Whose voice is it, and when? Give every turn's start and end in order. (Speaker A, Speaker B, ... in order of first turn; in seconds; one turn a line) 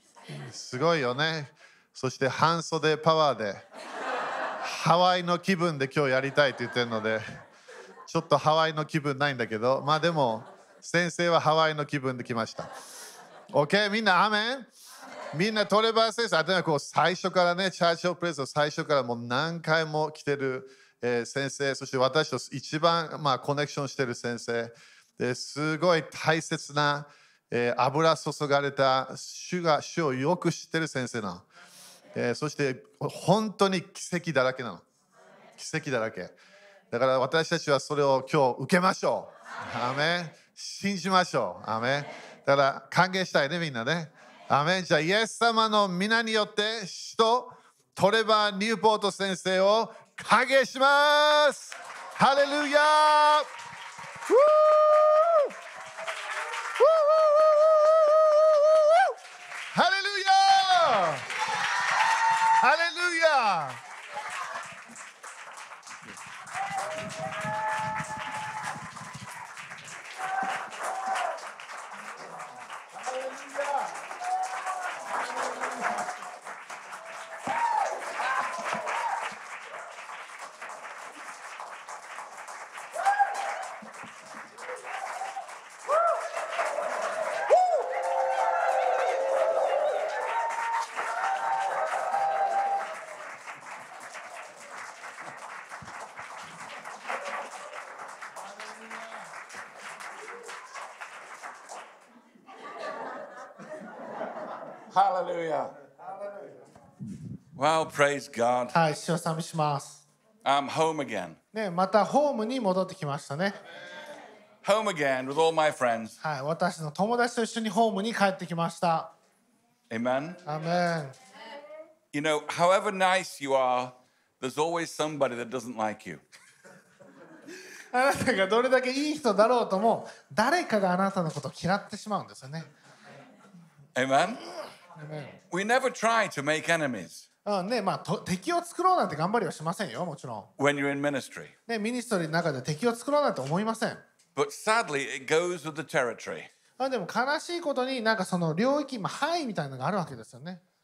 Speaker A: 0.3-3.6
Speaker A: 4.6-7.2
Speaker A: 8.1-12.7
Speaker A: 13.5-14.7
Speaker A: 15.3-31.5
Speaker A: 32.1-34.8
Speaker A: 35.6-36.4
Speaker A: 36.9-53.5
Speaker A: 54.3-55.5
Speaker A: 56.8-59.2
Speaker A: 59.7-61.3
Speaker A: 62.3-63.8
Speaker B: 104.9-105.8
Speaker B: 107.6-108.8
Speaker C: 108.7-110.0
Speaker B: 110.5-111.4
Speaker C: 111.5-113.6
Speaker B: 114.6-116.2
Speaker C: 116.2-119.1
Speaker B: 119.9-120.4
Speaker C: 120.5-121.2
Speaker B: 122.1-126.2
Speaker C: 127.9-132.7
Speaker B: 133.9-134.4
Speaker C: 135.0-135.4
Speaker B: 135.5-137.3
Speaker C: 137.5-140.5
Speaker B: 140.6-141.5
Speaker C: 141.7-144.0
Speaker B: 144.4-146.5
Speaker C: 146.8-150.6